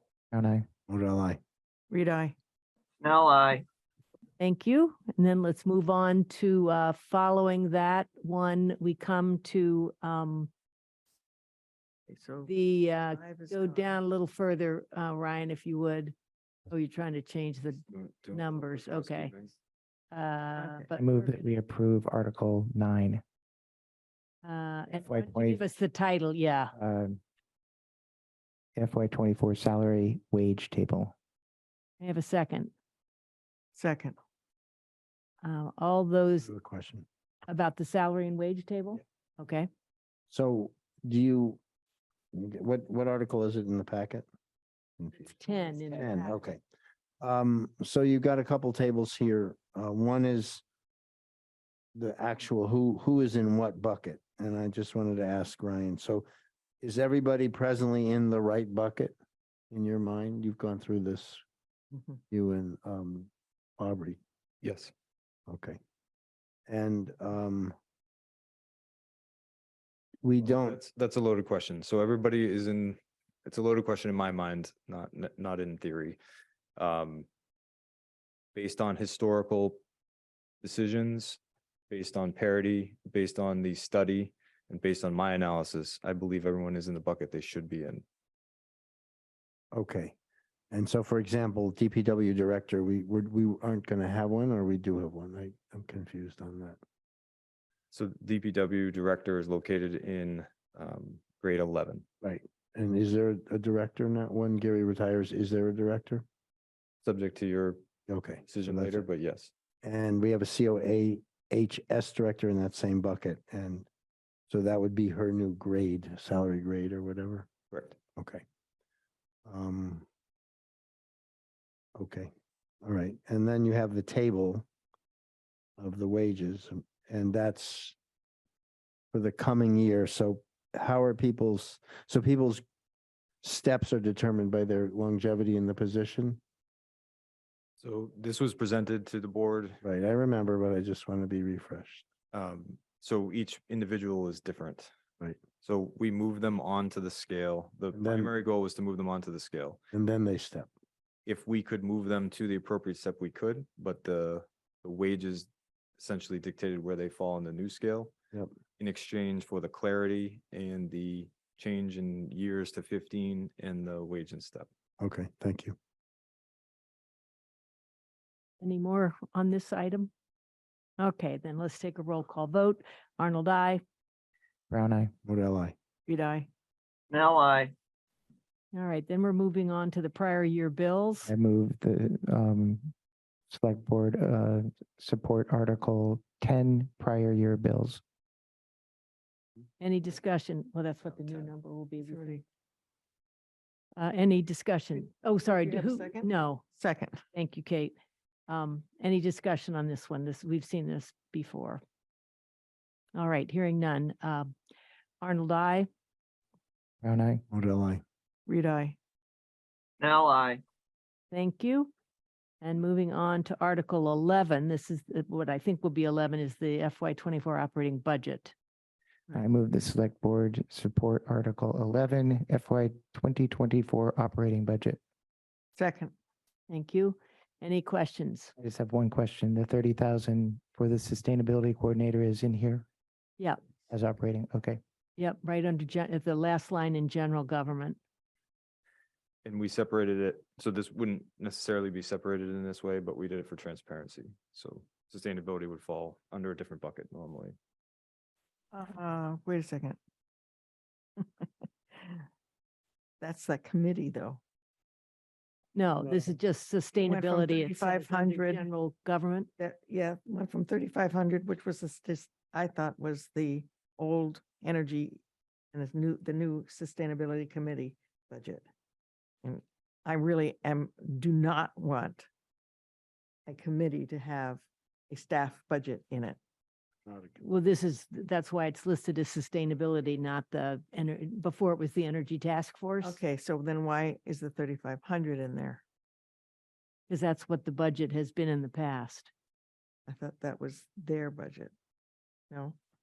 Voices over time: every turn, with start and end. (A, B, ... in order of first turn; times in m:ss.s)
0:00.3-0:00.7 A
0:00.9-0:01.4 B
0:01.9-0:02.3 C
0:03.0-0:03.6 D
0:04.4-0:10.5 E
0:12.1-0:12.5 C
0:12.4-0:16.1 E
0:13.1-0:14.0 C
0:16.7-0:19.3 E
0:17.9-0:19.5 F
0:20.1-0:21.0 E
0:20.6-0:20.9 C
0:20.9-0:23.2 A
0:24.4-0:26.7 E
0:25.0-0:25.6 A
0:26.8-0:27.2 A
0:28.8-0:31.1 A
0:32.0-0:32.7 E
0:33.7-0:34.2 C
0:35.4-0:36.5 E
0:36.4-0:37.0 B
0:37.5-0:39.7 E
0:40.3-0:41.6 B
0:42.3-0:44.2 B
0:45.3-0:46.1 E
0:45.3-0:46.4 C
0:46.0-0:46.6 B
0:47.2-0:50.6 B
0:51.9-0:56.2 B
0:56.8-0:59.1 B
0:59.7-1:01.4 B
1:02.3-1:04.2 B
1:04.6-1:04.9 F
1:05.5-1:05.8 B
1:06.7-1:07.7 B
1:10.2-1:10.8 B
1:10.4-1:16.2 F
1:16.8-1:17.3 F
1:18.5-1:19.8 F
1:20.6-1:28.0 F
1:29.7-1:30.1 B
1:30.7-1:36.8 B
1:37.9-1:42.0 F
1:42.2-1:46.2 B
1:47.0-1:47.8 F
1:48.1-1:49.0 B
1:48.4-1:49.5 F
1:49.8-1:53.9 B
1:54.5-1:57.5 B
1:57.7-1:58.0 F
1:58.2-1:58.4 B
1:59.4-2:00.0 B
2:02.0-2:02.3 B
2:02.8-2:04.6 B
2:05.8-2:08.0 B
2:09.1-2:12.6 B
2:13.4-2:16.4 B
2:17.8-2:19.8 F
2:19.8-2:22.0 B
2:22.3-2:24.9 F
2:25.6-2:29.8 F
2:27.9-2:28.3 B
2:29.9-2:30.7 B
2:31.2-2:38.1 F
2:38.8-2:44.7 F
2:45.0-2:45.7 B
2:48.6-2:50.1 E
2:51.0-2:53.8 E
2:54.7-2:55.1 A
2:55.2-2:55.7 B
2:56.1-2:56.5 C
2:57.1-2:57.7 D
2:58.7-3:01.3 E
3:01.3-3:02.9 A
3:03.5-3:08.0 A
3:09.8-3:12.4 E
3:12.0-3:12.4 C
3:14.0-3:16.6 E
3:15.5-3:17.2 C
3:17.3-3:17.9 E
3:18.5-3:21.8 E
3:23.1-3:24.5 E
3:25.2-3:25.9 E
3:27.0-3:27.4 A
3:27.5-3:28.0 B
3:28.5-3:29.0 C
3:30.0-3:30.6 D
3:31.3-3:31.9 E
3:32.6-3:38.5 E
3:39.3-3:45.0 A
3:45.8-3:46.1 C
3:46.7-3:48.5 E
3:48.6-3:52.8 A
3:53.9-3:54.8 A
3:55.2-3:58.0 E
3:59.4-4:07.6 F
4:08.7-4:10.0 C
4:11.2-4:12.2 C
4:13.2-4:14.4 C
4:15.7-4:19.5 E
4:17.0-4:18.6 C
4:19.6-4:25.2 C
4:25.7-4:28.6 C
4:29.4-4:32.3 C
4:33.5-4:36.4 C
4:37.1-4:37.3 B
4:37.4-4:43.2 E
4:43.0-4:45.8 C
4:47.1-4:49.3 E
4:50.1-4:51.7 C
4:52.5-4:52.8 C